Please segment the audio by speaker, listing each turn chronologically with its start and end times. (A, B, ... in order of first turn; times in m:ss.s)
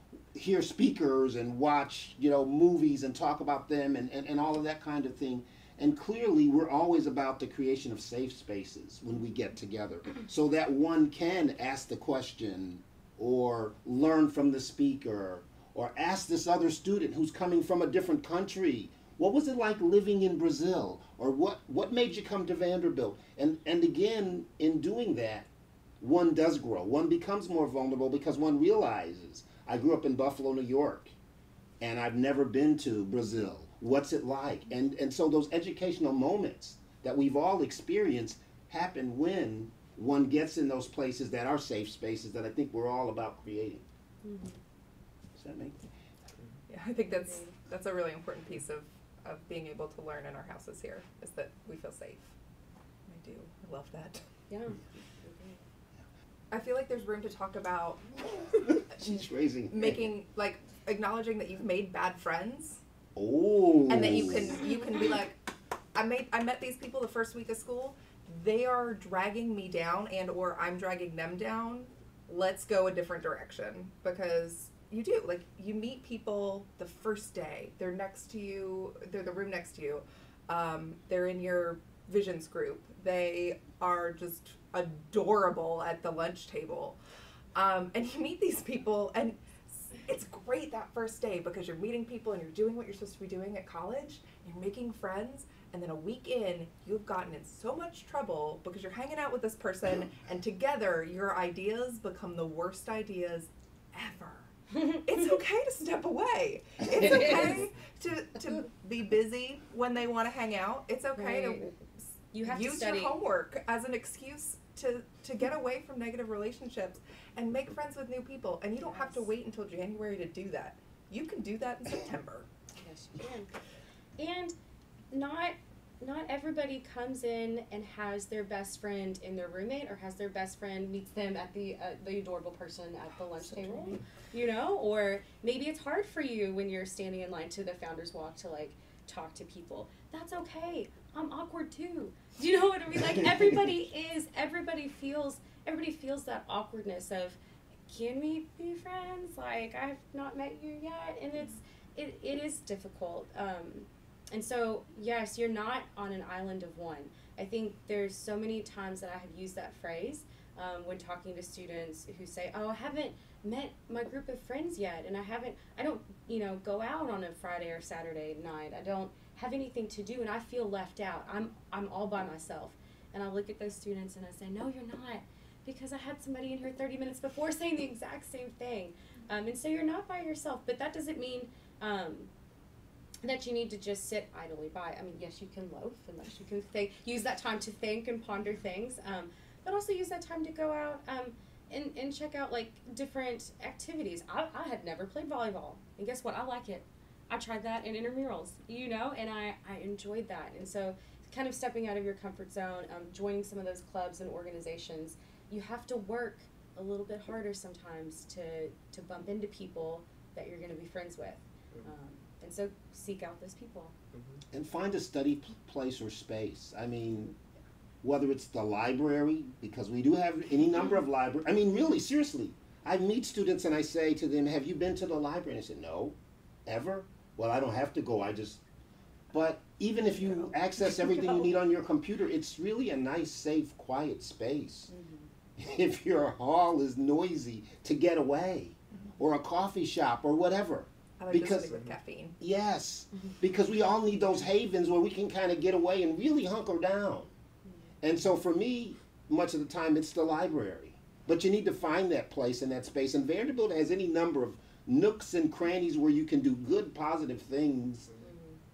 0:00.3-0:25.5 A
0:26.0-0:31.1 A
0:31.8-0:43.8 A
0:44.2-0:44.6 B
0:45.4-0:45.9 A
0:46.7-0:52.3 C
0:47.0-0:47.5 B
0:53.1-0:54.2 C
0:54.5-0:55.6 B
0:56.5-0:58.3 C
0:58.5-1:00.0 A
0:59.7-1:02.8 C
1:03.2-1:04.6 A
1:03.9-1:05.3 C
1:05.9-1:27.0 C
1:27.5-1:51.8 C
1:47.0-1:47.6 B
1:51.1-1:51.7 B
1:52.3-1:53.2 B
1:52.4-2:02.5 C
1:58.8-1:59.2 B
2:02.8-2:03.5 B
2:04.2-2:04.5 B
2:05.1-2:27.4 B
2:27.9-3:02.3 B
3:03.2-3:33.9 B
3:34.5-3:37.3 A
3:38.0-3:48.6 A
3:49.3-3:54.9 A
3:50.3-3:51.3 B
3:54.9-3:55.3 B
3:55.6-4:01.8 A
4:01.2-4:02.4 C
4:02.4-4:07.3 A
4:08.0-4:18.1 A
4:18.2-4:18.6 B